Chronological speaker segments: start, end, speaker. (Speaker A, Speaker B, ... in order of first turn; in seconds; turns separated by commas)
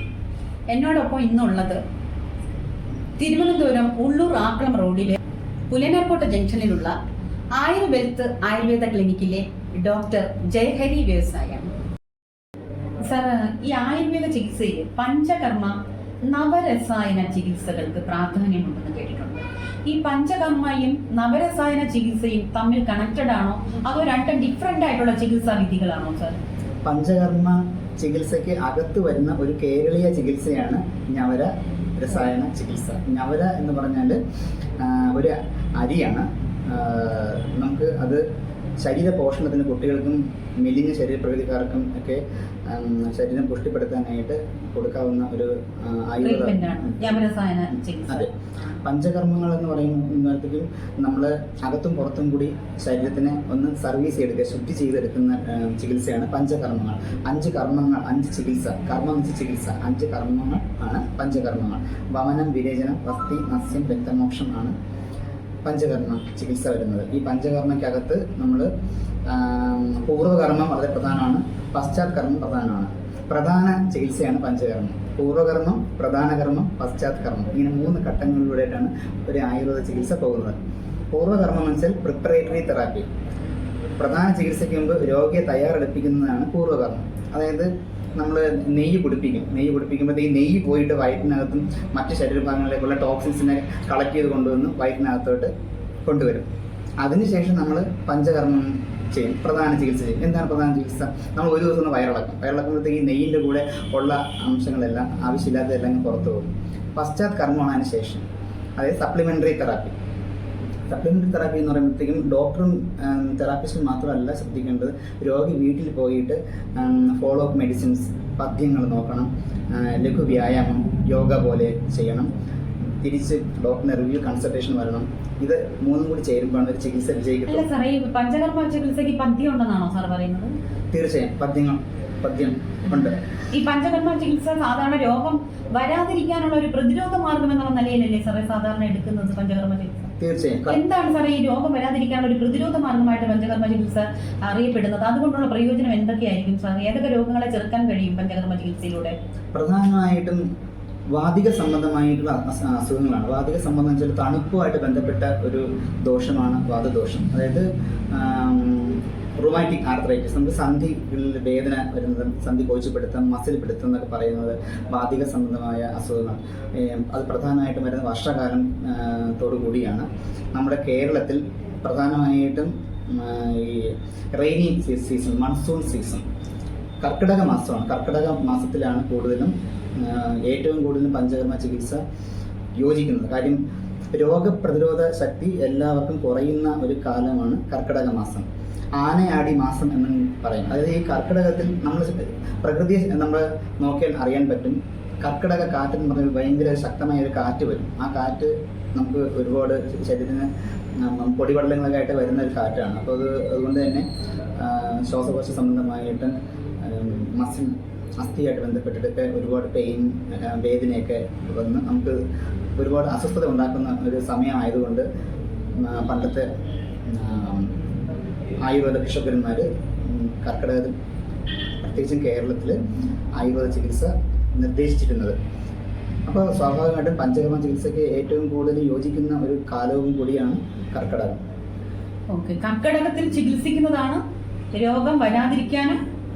Speaker A: 0.7-1.8, Speaker A: 3.2-5.2, Speaker A: 5.7-7.0, Speaker A: 7.5-11.7, Speaker A: 13.0-26.4, Speaker B: 26.9-34.2, Speaker B: 34.8-38.2, Speaker B: 38.8-47.1, Speaker A: 46.2-48.8, Speaker B: 48.8-64.7, Speaker B: 65.6-68.7, Speaker B: 69.3-80.6, Speaker B: 81.1-83.1, Speaker B: 84.0-95.5, Speaker B: 96.0-96.5, Speaker B: 97.0-108.2, Speaker B: 108.8-110.0, Speaker B: 110.9-122.3, Speaker B: 123.0-127.7, Speaker A: 127.5-130.5, Speaker B: 130.9-133.2, Speaker A: 133.5-140.1, Speaker B: 140.2-140.8, Speaker A: 140.7-149.2, Speaker B: 149.5-150.4, Speaker B: 151.1-176.2, Speaker B: 177.0-182.0, Speaker B: 182.8-183.6, Speaker B: 184.1-212.2, Speaker B: 212.8-215.1, Speaker B: 215.8-216.5, Speaker B: 217.1-217.8, Speaker B: 218.7-220.9, Speaker B: 221.8-222.8, Speaker B: 223.4-225.3, Speaker B: 226.3-231.4, Speaker A: 232.3-234.2, Speaker A: 234.7-236.0